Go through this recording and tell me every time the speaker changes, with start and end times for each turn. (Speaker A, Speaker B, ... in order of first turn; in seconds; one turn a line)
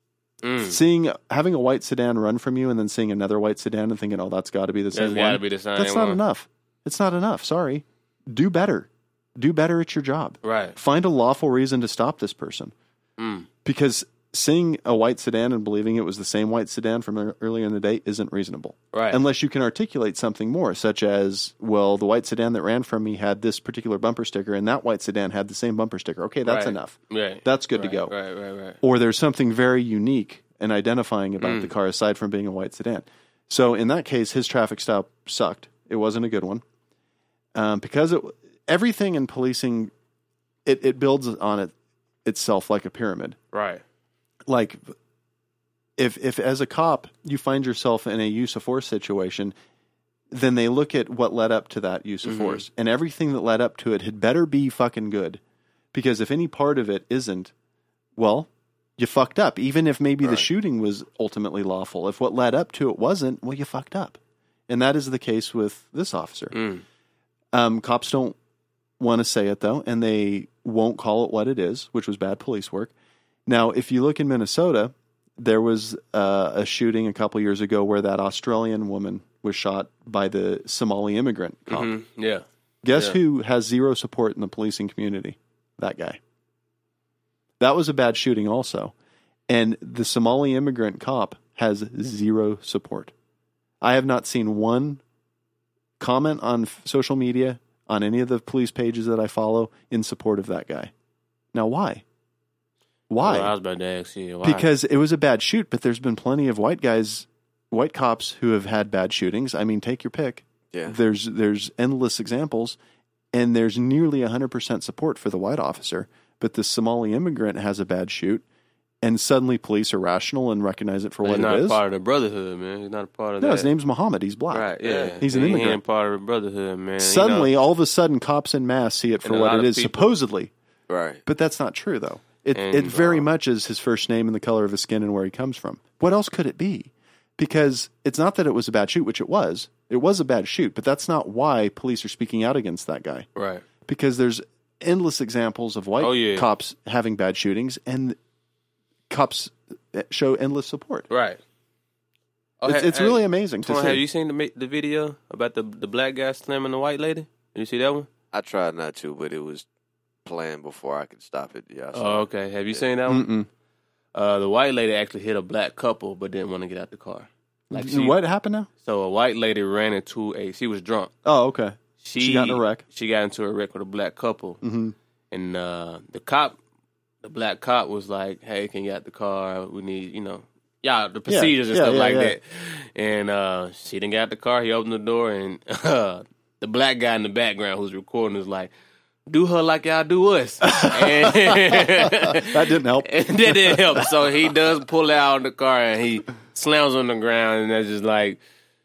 Speaker A: 0.4-0.8
Speaker B: 0.6-12.7
Speaker A: 4.9-6.2
Speaker A: 10.4-10.8
Speaker A: 13.2-13.5
Speaker B: 13.6-28.1
Speaker A: 18.9-19.2
Speaker A: 26.4-28.8
Speaker B: 28.8-36.6
Speaker A: 31.4-31.7
Speaker B: 37.5-39.9
Speaker B: 40.6-41.7
Speaker B: 42.2-43.4
Speaker A: 43.5-43.8
Speaker B: 44.5-44.8
Speaker B: 46.0-49.5
Speaker B: 50.3-55.4
Speaker A: 52.2-52.6
Speaker B: 55.9-57.5
Speaker B: 58.2-64.2
Speaker B: 64.7-66.5
Speaker A: 66.5-66.8
Speaker B: 67.5-68.4
Speaker B: 69.0-72.9
Speaker B: 73.5-81.9
Speaker A: 81.7-83.2
Speaker B: 82.8-86.2
Speaker B: 87.6-88.9
Speaker B: 89.5-93.1
Speaker B: 93.8-95.0
Speaker B: 96.0-100.9
Speaker B: 101.5-102.0
Speaker B: 103.1-103.5
Speaker A: 103.2-104.7
Speaker B: 104.4-112.8
Speaker B: 113.3-118.4
Speaker B: 119.0-121.8
Speaker A: 121.2-123.7
Speaker B: 123.4-125.8
Speaker A: 124.5-127.5
Speaker C: 124.8-125.2
Speaker B: 127.0-130.5
Speaker A: 129.2-130.1
Speaker C: 130.9-131.2
Speaker B: 131.2-143.3
Speaker A: 132.5-133.2
Speaker A: 143.3-143.6
Speaker B: 143.8-148.2
Speaker A: 146.0-146.5
Speaker B: 149.1-151.1
Speaker A: 151.1-151.4
Speaker A: 152.6-158.1
Speaker B: 152.6-154.0
Speaker C: 158.3-159.6
Speaker C: 160.2-162.8
Speaker A: 161.9-163.3
Speaker B: 163.1-163.5
Speaker A: 164.1-168.2
Speaker B: 167.7-168.7
Speaker A: 168.8-171.1
Speaker B: 171.2-172.8
Speaker A: 172.0-174.6
Speaker B: 174.6-174.9
Speaker A: 175.3-176.6
Speaker A: 177.2-188.7
Speaker B: 181.3-182.3
Speaker A: 189.3-198.4
Speaker B: 190.6-194.1